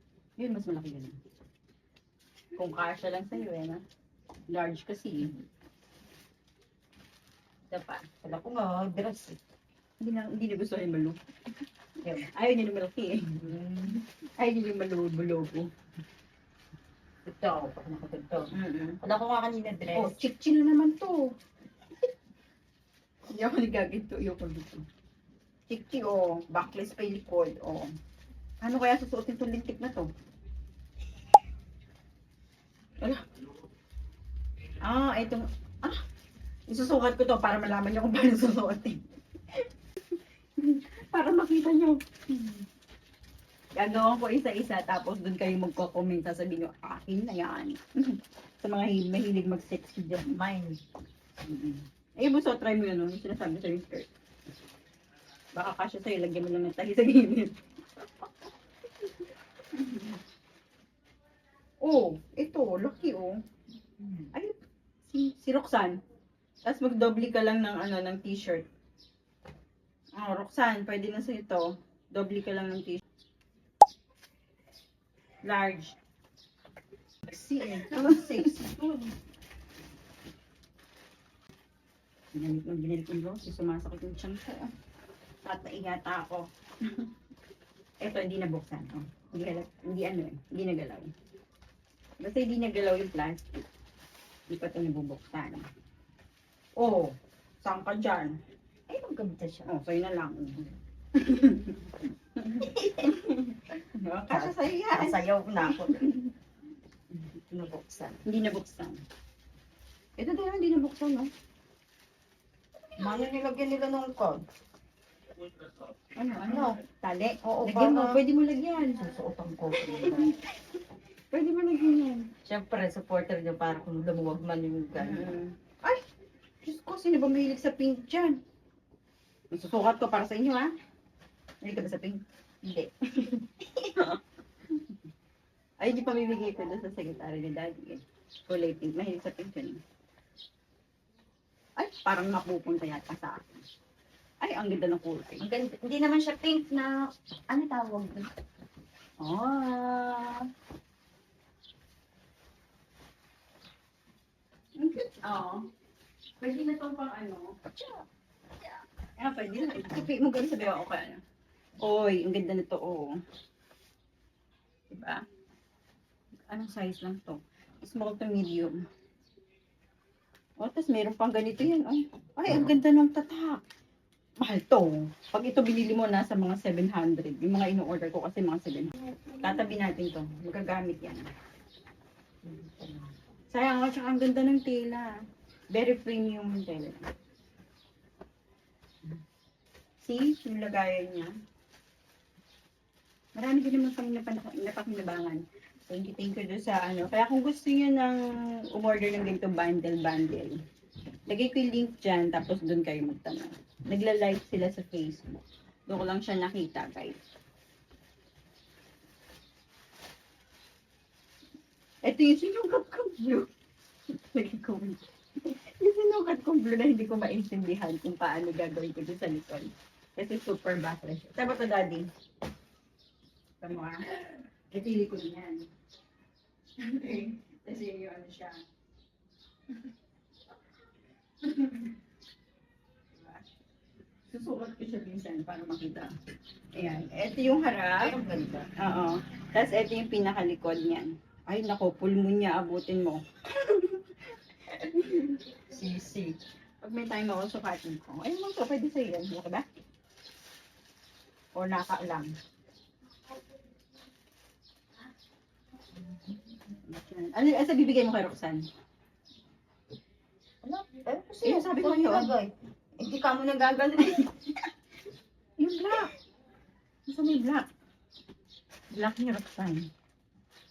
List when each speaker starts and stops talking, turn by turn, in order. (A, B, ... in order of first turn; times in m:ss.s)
0:00.4-0:01.2 A
0:02.6-0:03.8 A
0:04.5-0:05.4 A
0:07.7-0:08.0 A
0:08.2-0:09.4 B
0:10.0-0:11.2 A
0:12.0-0:13.3 A
0:13.3-0:14.0 B
0:14.4-0:15.7 A
0:17.2-0:18.5 B
0:18.5-0:19.0 A
0:19.0-0:20.1 B
0:19.9-0:21.2 A
0:23.3-0:24.8 A
0:25.7-0:27.9 A
0:28.6-0:30.1 A
0:34.8-0:36.0 A
0:36.7-0:39.0 A
0:40.6-0:42.6 A
0:43.8-0:50.4 A
0:50.3-0:50.8 B
0:51.4-0:54.1 A
0:55.6-0:58.2 A
0:59.0-1:00.2 A
1:01.8-1:03.3 A
1:04.0-1:04.3 B
1:05.1-1:06.0 A
1:06.6-1:08.7 A
1:10.2-1:13.0 A
1:15.4-1:15.9 A
1:17.3-1:19.1 A
1:17.7-1:18.5 B
1:22.3-1:24.7 A
1:25.4-1:27.1 A
1:28.0-1:31.1 A
1:32.2-1:33.6 A
1:34.5-1:35.6 A
1:36.8-1:37.1 A
1:37.6-1:38.4 A
1:38.9-1:39.7 B
1:39.7-1:46.3 A
1:42.7-1:43.1 B
1:44.3-1:46.0 B
1:47.5-1:48.2 B
1:48.2-1:49.0 A
1:50.2-1:51.3 A
1:53.0-1:54.4 B
1:56.2-1:59.2 A
1:56.4-1:56.8 B
1:57.4-1:58.2 B
1:59.0-2:00.4 B
1:59.8-2:00.4 A
2:01.3-2:02.3 A
2:02.4-2:05.4 B
2:05.0-2:06.0 A
2:06.6-2:08.4 A
2:09.5-2:10.7 A
2:11.6-2:13.3 A
2:15.8-2:19.8 A
2:21.8-2:23.6 A
2:24.4-2:25.4 A
2:25.4-2:28.3 B
2:29.2-2:30.4 A
2:34.8-2:35.7 A
2:36.4-2:37.6 A
2:37.7-2:38.0 B
2:39.2-2:41.2 A
2:41.8-2:43.1 A
2:44.9-2:45.2 A
2:46.5-2:48.7 A
2:50.6-2:53.6 A
2:54.4-3:01.3 A
3:02.4-3:03.1 B
3:03.5-3:05.1 A
3:05.7-3:07.0 A
3:10.0-3:11.3 A
3:13.4-3:18.2 A
3:18.7-3:20.5 A
3:21.3-3:27.2 A
3:32.0-3:33.5 A
3:34.3-3:42.1 A
3:43.6-3:44.2 A
3:44.7-3:45.7 A
3:46.8-3:48.6 A
3:51.4-3:51.9 A
3:53.2-3:53.4 A
3:54.3-3:56.1 A
3:56.7-3:58.1 A
3:58.0-3:58.7 B
3:58.8-4:04.0 A
4:04.7-4:05.2 A
4:05.7-4:06.4 B
4:06.8-4:09.7 A
4:11.5-4:12.3 A
4:16.8-4:18.6 A
4:20.6-4:24.3 B
4:21.4-4:22.3 A
4:25.6-4:26.1 A
4:27.1-4:27.7 A
4:28.9-4:29.9 A